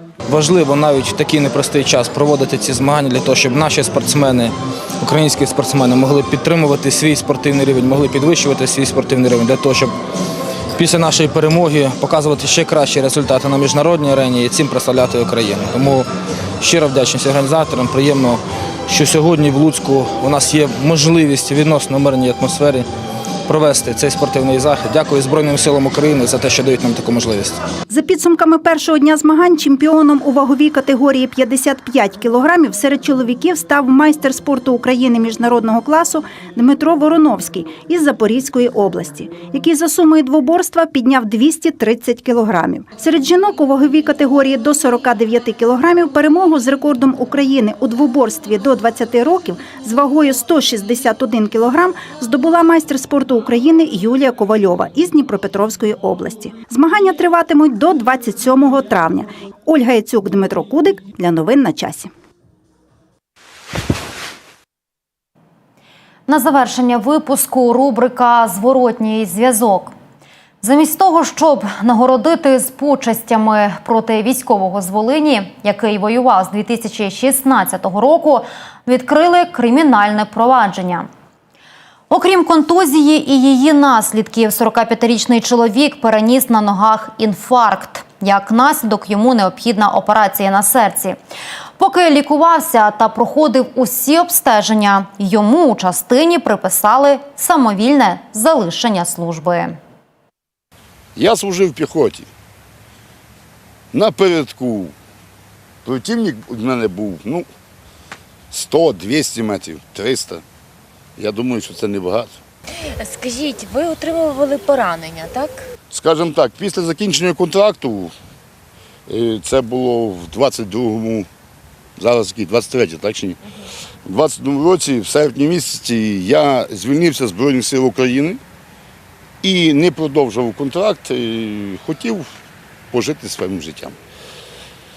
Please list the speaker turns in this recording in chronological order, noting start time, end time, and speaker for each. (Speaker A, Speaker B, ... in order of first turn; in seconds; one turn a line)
Speaker A: 0.3-9.9
Speaker A: 10.8-16.1
Speaker A: 16.6-22.9
Speaker A: 23.5-27.6
Speaker B: 27.9-62.1
Speaker C: 66.3-69.9
Speaker C: 70.6-81.1
Speaker C: 82.1-91.2
Speaker C: 91.8-99.8
Speaker D: 101.2-102.3
Speaker D: 103.9-104.9
Speaker D: 105.8-107.5
Speaker D: 108.5-110.4
Speaker D: 111.2-112.3
Speaker E: 113.0-115.6
Speaker D: 115.9-118.1
Speaker D: 119.1-121.3
Speaker D: 122.0-123.4
Speaker D: 124.0-128.4
Speaker D: 129.4-132.3
Speaker D: 132.9-133.9